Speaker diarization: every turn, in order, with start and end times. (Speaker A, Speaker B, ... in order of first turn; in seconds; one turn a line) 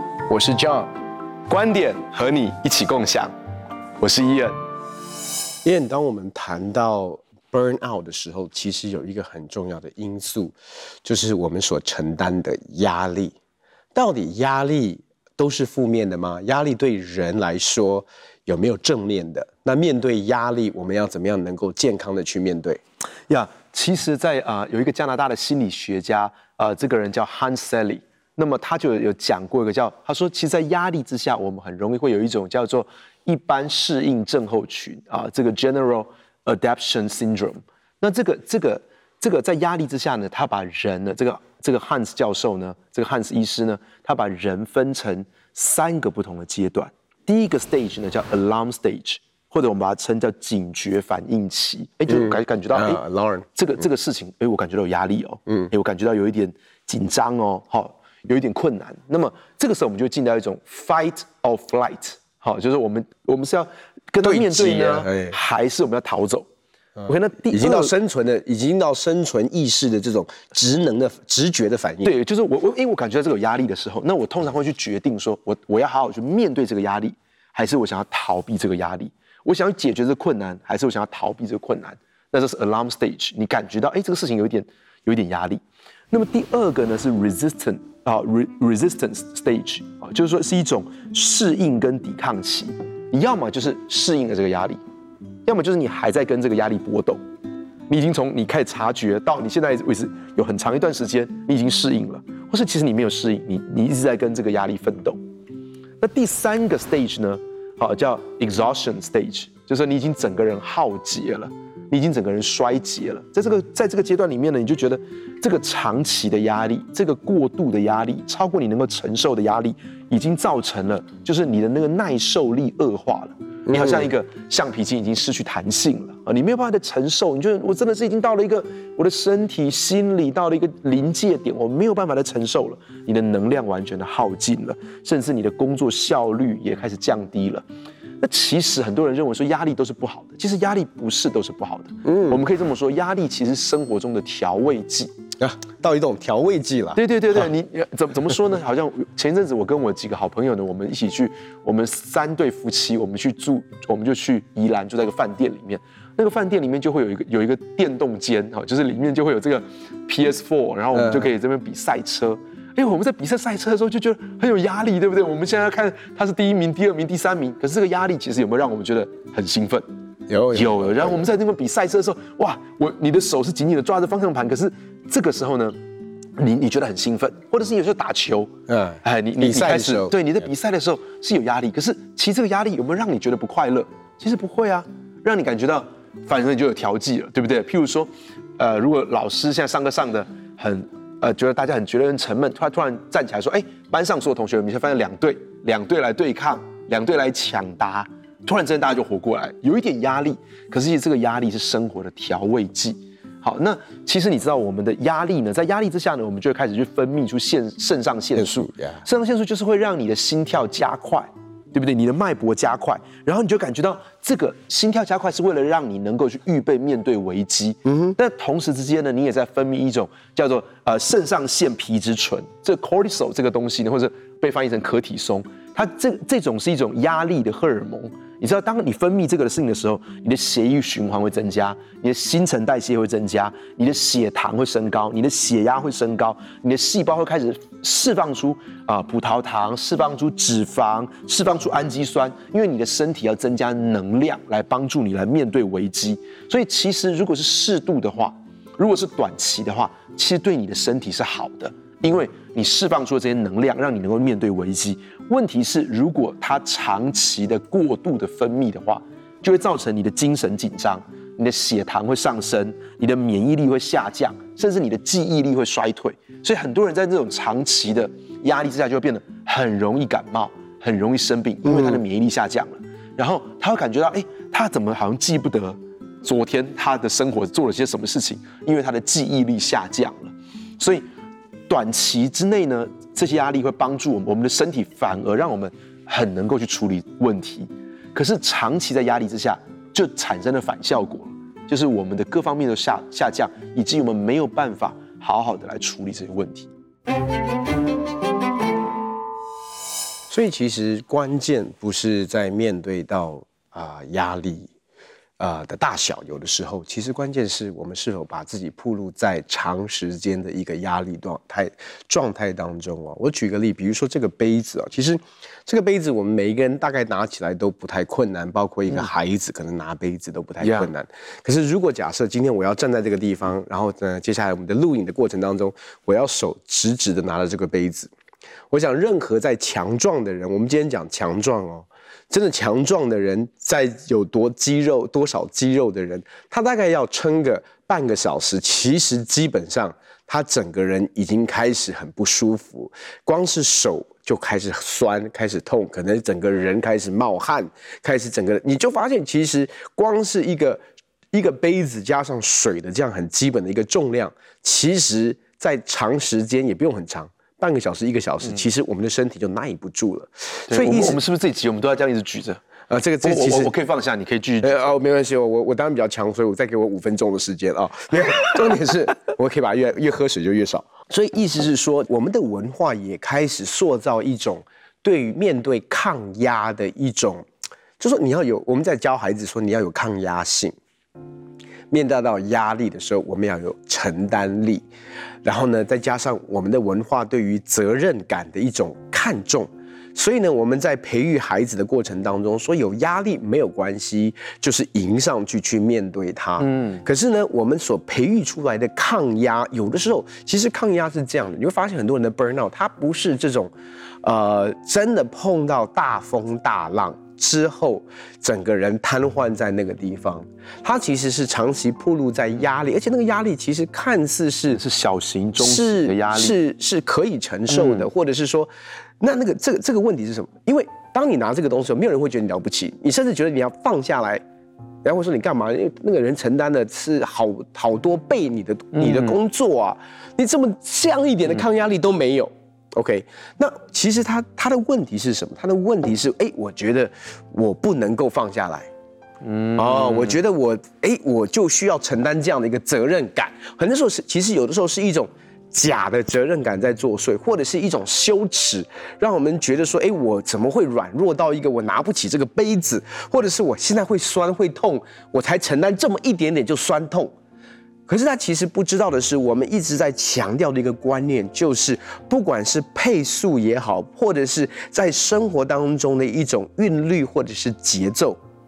Speaker A: 0.3-0.9
Speaker B: 1.5-3.3
Speaker B: 4.0-4.6
Speaker A: 5.6-13.3
Speaker A: 13.9-22.8
Speaker B: 23.3-53.0
Speaker A: 52.1-53.4
Speaker B: 53.5-66.5
Speaker A: 64.2-65.3
Speaker A: 67.0-72.1
Speaker B: 67.0-67.9
Speaker B: 72.0-94.8
Speaker B: 95.5-97.2
Speaker B: 97.9-105.2
Speaker B: 106.0-137.6
Speaker A: 123.7-124.1
Speaker B: 138.2-145.1
Speaker A: 142.0-142.4
Speaker A: 145.4-147.0
Speaker B: 146.9-169.8
Speaker A: 160.9-161.2
Speaker A: 170.3-171.2
Speaker B: 170.5-175.8
Speaker B: 176.4-178.5
Speaker A: 178.7-180.1
Speaker B: 179.0-281.0
Speaker A: 208.3-209.0
Speaker A: 217.8-218.2
Speaker A: 271.7-272.0
Speaker B: 281.7-296.7
Speaker A: 300.3-304.7
Speaker A: 305.4-328.1
Speaker B: 320.6-320.9
Speaker A: 328.7-361.2
Speaker B: 360.7-362.6
Speaker A: 362.9-363.7
Speaker B: 363.2-364.9
Speaker A: 364.6-377.4
Speaker A: 378.0-380.7
Speaker A: 381.9-384.8
Speaker A: 385.4-414.8
Speaker B: 396.6-397.0
Speaker B: 414.7-416.6
Speaker A: 415.6-424.4
Speaker B: 417.7-418.1
Speaker A: 425.0-438.9
Speaker B: 428.9-429.4
Speaker B: 439.4-440.4
Speaker A: 439.8-457.3
Speaker A: 458.1-468.4